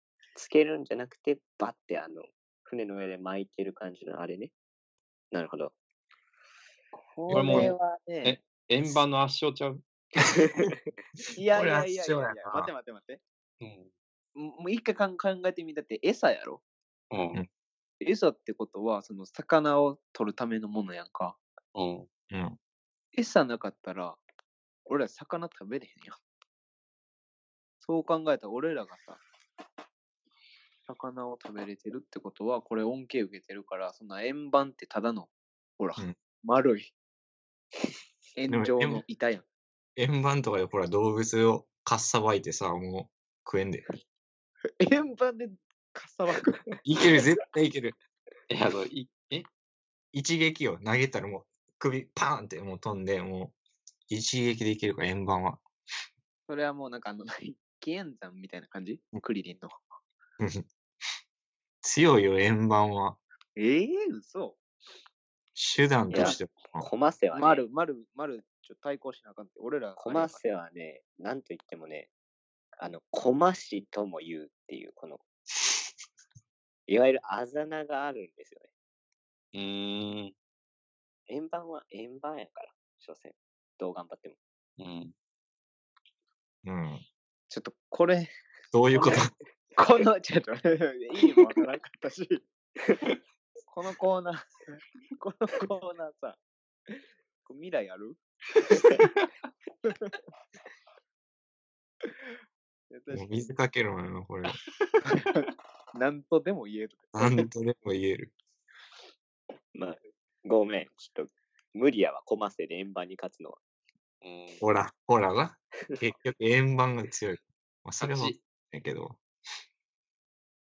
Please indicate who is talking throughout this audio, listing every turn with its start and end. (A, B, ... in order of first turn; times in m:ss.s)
0:00.4-0:04.5 A
0:05.3-0:05.7 A
0:07.0-0:08.4 B
0:07.3-0:09.8 C
0:10.4-0:10.8 A
0:11.3-0:13.2 B
0:11.5-0:12.7 D
0:13.6-0:13.9 C
0:14.4-0:16.6 B
0:17.1-0:17.4 C
0:18.0-0:21.4 B
0:21.8-0:22.1 C
0:22.3-0:22.6 D
0:23.2-0:24.2 B
0:24.9-0:26.2 B
0:27.8-0:29.2 B
0:30.9-0:36.9 B
0:38.4-0:39.4 B
0:38.5-0:39.0 D
0:40.0-0:43.9 D
0:44.8-0:46.8 B
0:46.8-0:48.0 D
0:48.5-0:49.5 C
0:50.1-0:53.6 D
0:54.1-0:55.6 D
0:56.5-0:59.8 B
1:00.4-1:00.7 D
1:01.8-1:03.2 D
1:03.6-1:04.6 B
1:05.6-1:06.9 D
1:06.1-1:07.6 A
1:06.1-1:06.4 B
1:07.3-1:10.4 B
1:10.0-1:12.1 A
1:12.8-1:15.2 A
1:16.9-1:18.7 A
1:19.5-1:20.3 C
1:21.3-1:24.4 A
1:24.8-1:25.1 C
1:26.6-1:27.0 D
1:27.5-1:28.3 B
1:28.7-1:29.3 D
1:29.0-1:29.2 B
1:29.8-1:32.4 B
1:33.7-1:38.2 B
1:38.8-1:39.0 A
1:42.0-1:42.3 B
1:42.9-1:43.3 B
1:43.1-1:44.6 D
1:45.0-1:47.4 B
1:47.1-1:48.3 D
1:49.7-1:53.6 A
1:54.2-1:54.6 C
1:54.6-1:59.2 D
1:58.0-1:58.4 C